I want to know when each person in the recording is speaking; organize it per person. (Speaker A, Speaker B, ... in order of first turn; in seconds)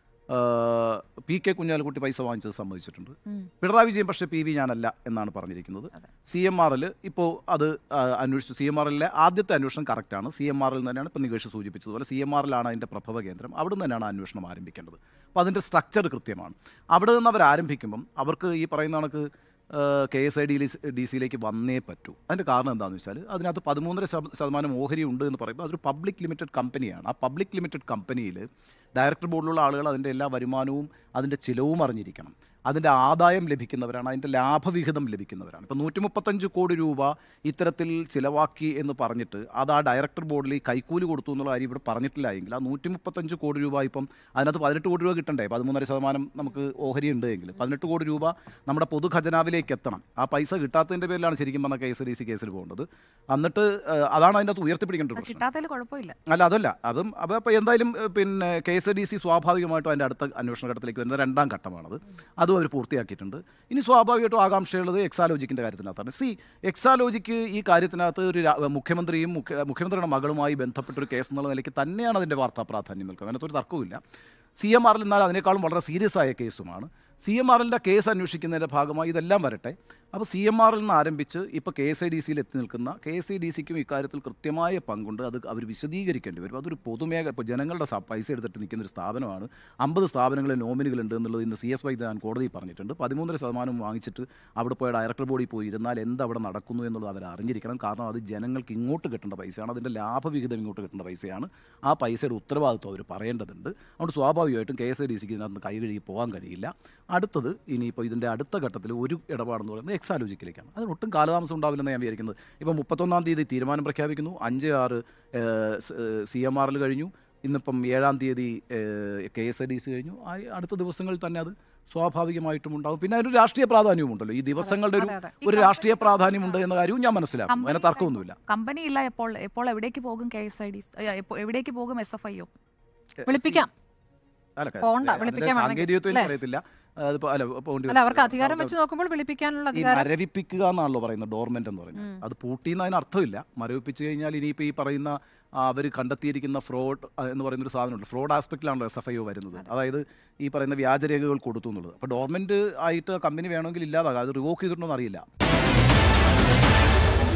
Speaker A: 0.3-55.4, 56.3-74.0, 74.6-128.4, 133.2-133.7, 134.6-138.8, 139.7-155.2
Speaker B: 55.2-56.1, 125.4-126.6, 127.5-132.5
Speaker C: 124.6-125.4, 133.3-133.7, 134.8-136.3, 137.9-140.1